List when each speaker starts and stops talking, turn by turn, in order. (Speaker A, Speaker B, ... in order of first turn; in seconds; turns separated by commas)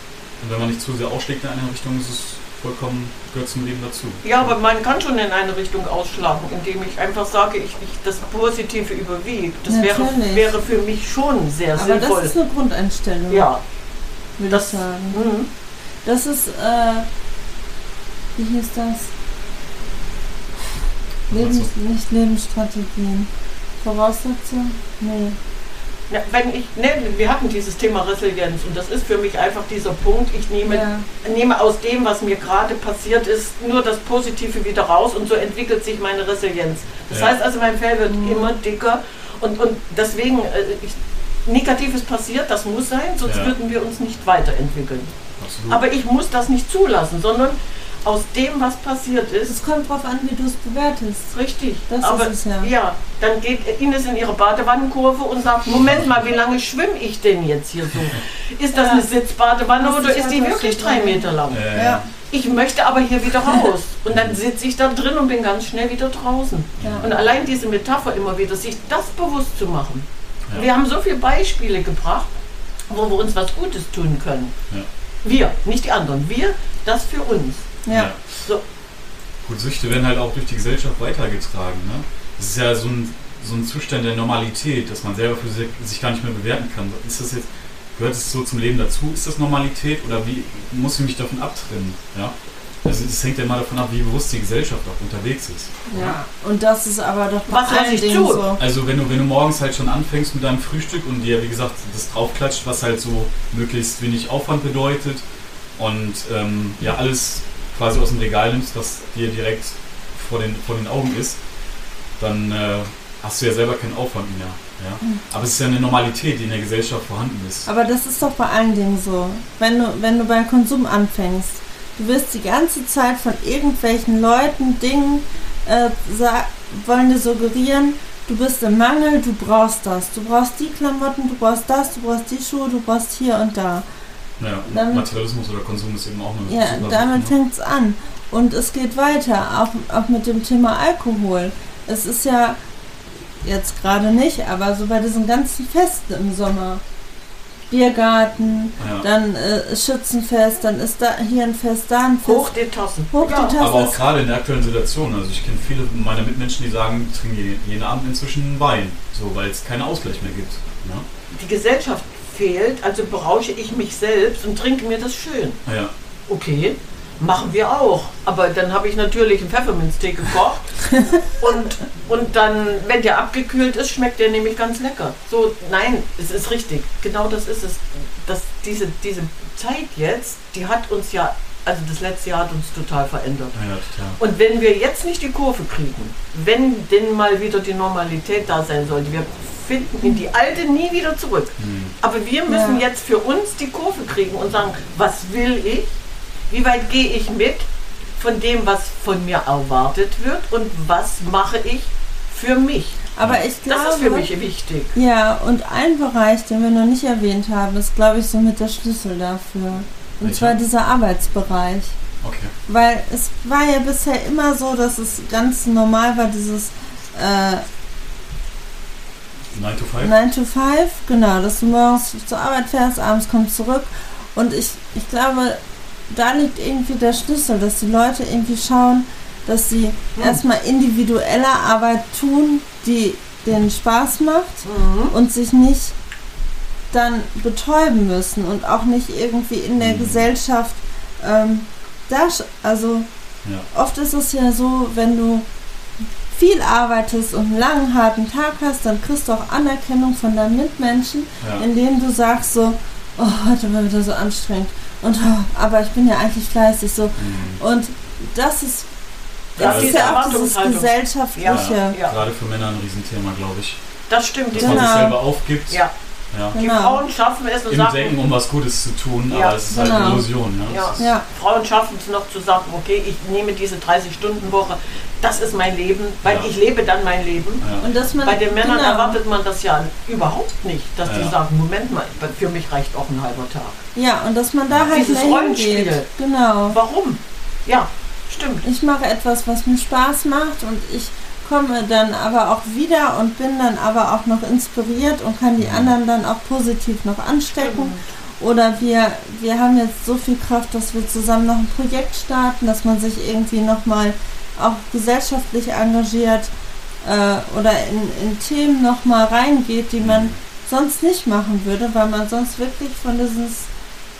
Speaker A: 0.4-4.5, Speaker B: 4.2-12.3, Speaker C: 9.7-10.5, Speaker C: 11.7-13.5, Speaker B: 13.3-13.6, Speaker C: 14.4-15.3, Speaker B: 14.5-15.5, Speaker C: 16.0-17.1, Speaker C: 18.4-19.1, Speaker A: 21.3-21.7, Speaker C: 21.3-25.4, Speaker B: 26.1-45.1, Speaker C: 30.7-31.1, Speaker A: 37.1-37.4, Speaker C: 38.1-38.5, Speaker A: 43.2-43.5, Speaker A: 45.4-45.8, Speaker B: 45.7-49.5, Speaker C: 49.5-51.3, Speaker B: 51.3-61.7, Speaker C: 51.9-52.7, Speaker A: 55.7-56.0, Speaker C: 58.7-59.0, Speaker C: 59.8-62.0, Speaker A: 61.5-62.1, Speaker B: 62.3-72.4, Speaker A: 64.1-64.4, Speaker A: 66.8-67.1, Speaker B: 72.9-74.5, Speaker B: 75.2-77.8, Speaker C: 77.8-78.1, Speaker A: 77.9-78.4, Speaker A: 79.4-96.2, Speaker C: 95.9-98.6, Speaker B: 97.5-98.5, Speaker A: 98.6-105.2, Speaker A: 105.8-111.4, Speaker A: 112.2-117.7, Speaker C: 117.7-133.8, Speaker A: 134.4-137.3, Speaker C: 134.7-135.1, Speaker C: 136.5-142.6, Speaker C: 143.4-146.8, Speaker C: 147.7-152.5, Speaker A: 148.8-149.1, Speaker B: 152.2-153.6, Speaker C: 153.1-154.0, Speaker A: 153.6-161.1, Speaker B: 161.3-165.6, Speaker A: 165.7-165.9, Speaker B: 166.3-183.6, Speaker A: 183.5-184.2, Speaker B: 184.2-195.9, Speaker A: 191.6-191.9, Speaker C: 192.5-192.8, Speaker B: 196.5-203.0, Speaker C: 203.1-204.3, Speaker B: 203.7-204.9, Speaker C: 204.9-211.9, Speaker A: 210.2-210.6, Speaker A: 212.2-212.5, Speaker C: 212.7-217.6, Speaker A: 219.5-220.1, Speaker C: 220.0-235.9, Speaker B: 230.2-230.4, Speaker B: 234.6-235.1, Speaker C: 236.9-243.1, Speaker A: 239.8-240.3, Speaker C: 243.7-245.5, Speaker C: 246.3-258.9, Speaker A: 251.4-251.6, Speaker A: 257.1-257.6, Speaker A: 259.6-260.4, Speaker C: 259.6-262.0, Speaker B: 259.6-262.2, Speaker A: 261.5-263.8, Speaker B: 264.1-265.1, Speaker A: 264.5-265.8, Speaker C: 264.5-265.1, Speaker A: 266.3-266.6, Speaker B: 266.5-268.2, Speaker C: 266.5-267.0, Speaker A: 267.7-271.0, Speaker B: 269.3-269.6, Speaker C: 269.7-270.3, Speaker B: 270.7-277.6, Speaker C: 271.0-271.2, Speaker A: 276.2-276.5, Speaker A: 277.6-277.9, Speaker C: 277.8-279.2, Speaker B: 278.2-283.8, Speaker A: 281.0-281.3, Speaker C: 283.9-286.8, Speaker A: 284.7-284.9, Speaker B: 284.9-286.1, Speaker B: 286.7-288.6, Speaker C: 288.6-306.5, Speaker A: 295.6-295.9, Speaker B: 297.6-298.0, Speaker C: 307.0-313.7, Speaker A: 310.0-310.4